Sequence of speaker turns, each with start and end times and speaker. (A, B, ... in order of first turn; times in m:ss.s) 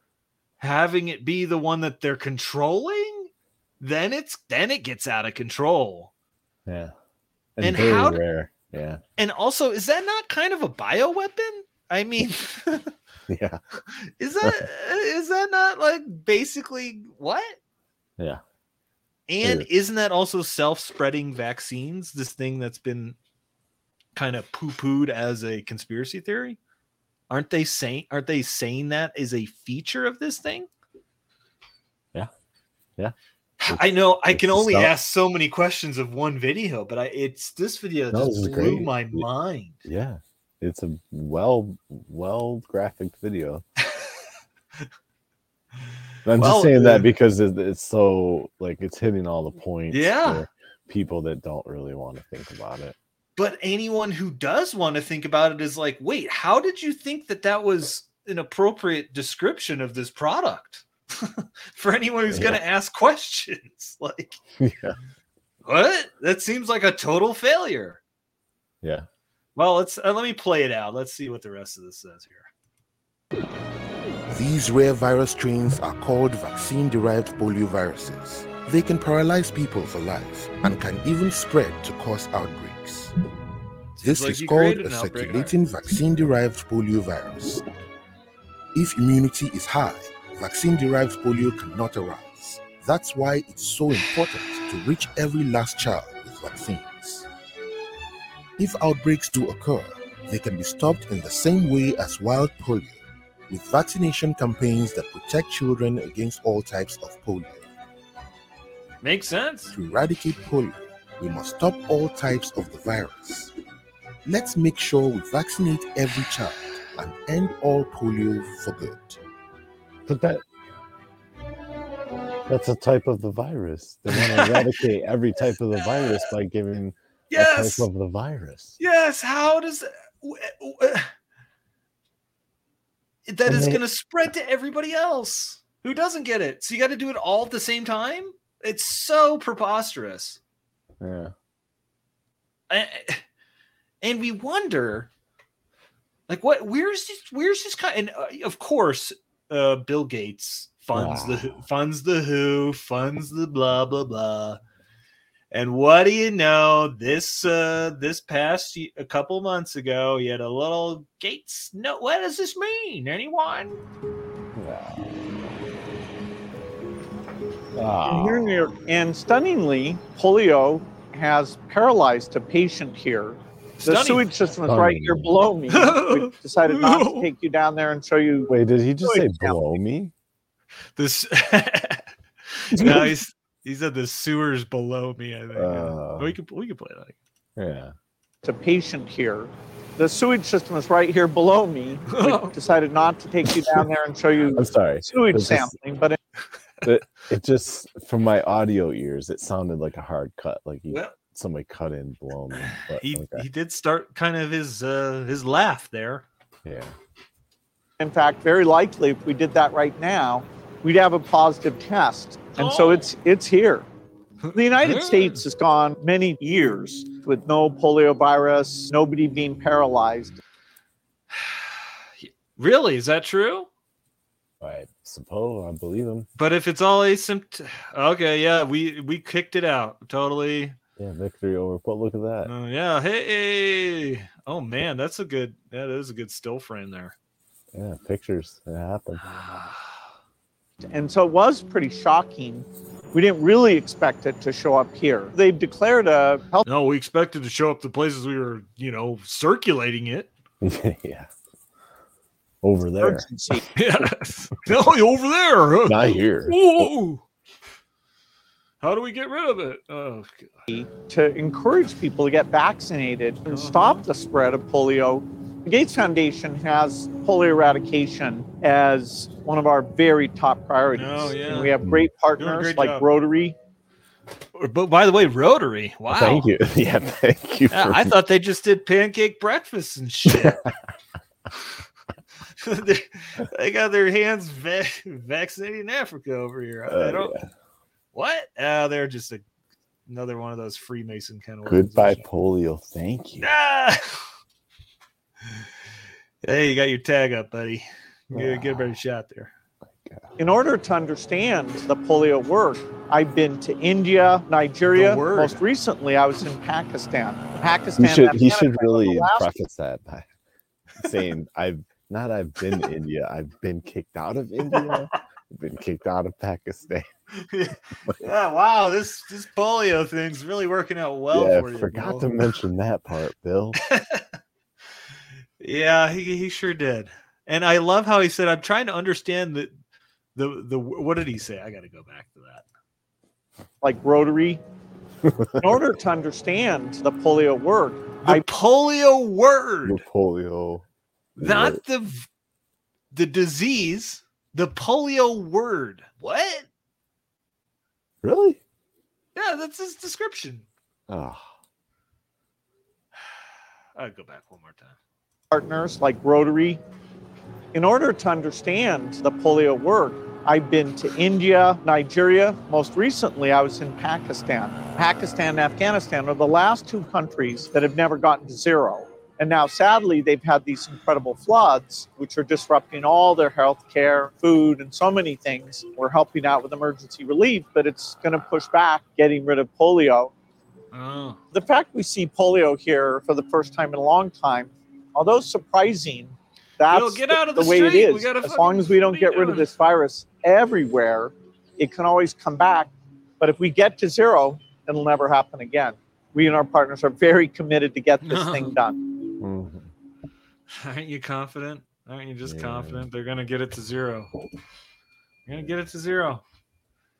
0:00.6-0:06.1 A
0:06.7-0:06.9 B
0:07.6-0:09.0 B
0:07.6-0:08.2 A
0:09.2-0:12.9 A
0:13.3-0:13.6 B
0:14.0-0:17.6 A
0:19.3-0:23.2 A
0:19.4-0:19.7 B
0:24.2-0:26.6 A
0:27.3-0:30.7 A
0:33.6-0:39.8 A
0:33.7-0:34.9 B
0:38.1-0:39.3 B
0:39.8-0:43.6 B
0:46.2-0:53.0 B
0:46.4-0:47.1 A
0:49.9-0:50.4 A
0:53.4-1:04.4 A
1:02.3-1:02.6 B
1:04.6-1:05.0 B
1:05.6-1:08.0 A
1:08.8-1:09.1 B
1:09.6-1:12.5 A
1:14.3-1:23.1 C
1:24.0-1:25.6 A
1:24.0-1:27.6 C
1:28.8-1:37.3 C
1:38.6-1:47.6 C
1:49.0-1:49.7 A
1:49.7-1:53.5 C
1:54.2-1:59.2 C
2:00.1-2:00.4 B
2:02.5-2:08.8 B
2:04.1-2:04.7 A
2:05.8-2:06.2 A
2:07.3-2:07.9 A
2:08.8-2:11.1 A
2:13.3-2:20.4 A
2:13.5-2:13.8 B
2:21.0-2:21.3 B
2:22.7-2:23.2 A
2:24.0-2:25.1 A
2:26.3-2:34.6 A
2:30.9-2:31.6 B
2:35.5-2:43.8 A
2:44.6-2:45.4 B
2:47.7-2:48.6 B
2:48.0-2:58.5 D
2:53.8-2:54.3 A
2:54.6-2:55.5 B
2:55.7-2:57.3 A
2:58.5-3:00.1 B
2:59.1-2:59.5 D
3:01.0-3:07.2 A
3:02.8-3:03.1 B
3:05.6-3:06.3 B
3:07.6-3:08.0 B
3:08.4-3:16.2 D
3:12.1-3:12.6 A
3:14.6-3:15.8 B
3:16.8-3:23.5 B
3:22.8-3:26.3 A
3:26.6-3:26.9 B
3:28.0-3:33.9 D
3:32.6-3:33.1 A
3:34.4-3:35.4 A
3:34.5-3:40.3 D
3:41.3-3:41.6 A
3:42.2-3:43.7 A
3:44.6-3:46.3 B
3:46.4-3:50.8 A
3:51.0-3:52.5 B
3:52.4-3:57.2 A
3:57.7-3:59.3 B
3:59.2-4:00.1 A
4:00.9-4:06.6 D
4:06.6-4:10.3 A
4:10.6-4:11.3 B
4:12.6-4:13.3 B
4:13.0-4:13.6 D
4:13.8-4:17.2 A
4:15.9-4:16.9 B
4:18.8-4:20.6 A
4:20.7-4:33.6 D
4:23.5-4:24.1 A
4:30.9-4:31.8 A
4:31.8-4:32.1 B
4:32.4-4:33.1 A
4:34.5-4:36.5 A
4:36.1-4:38.2 B
4:37.7-4:40.6 A
4:40.3-4:40.7 B
4:42.6-4:47.3 A
4:46.9-4:47.5 B
4:48.1-4:49.4 A
4:50.1-4:52.2 A
4:51.6-4:53.5 B
4:53.4-4:54.2 A
4:56.4-4:59.5 A
4:58.3-4:58.9 B
4:59.9-5:00.3 B
5:00.4-5:09.5 D
5:04.9-5:05.6 A
5:08.0-5:10.3 B
5:11.0-5:17.1 B
5:17.4-5:22.3 A
5:21.3-5:23.8 B
5:23.8-5:24.2 A
5:25.6-5:29.8 A
5:30.4-5:32.6 A
5:33.8-5:34.6 D
5:35.2-5:35.8 B
5:35.6-5:38.4 D
5:38.2-5:40.0 A
5:39.8-5:40.8 B
5:41.4-5:41.8 B
5:41.4-5:42.3 A
5:43.1-5:46.7 A
5:48.2-5:48.6 B
5:49.4-5:50.7 A
5:51.1-5:51.5 B
5:54.0-5:55.0 A
5:55.5-5:56.8 D
5:57.7-6:20.3 D
6:20.9-6:21.4 A
6:21.5-6:39.0 D
6:26.9-6:29.7 A
6:38.2-6:38.8 A
6:39.4-6:39.9 B
6:40.8-6:44.3 A
6:42.4-6:43.1 B
6:45.5-6:46.4 A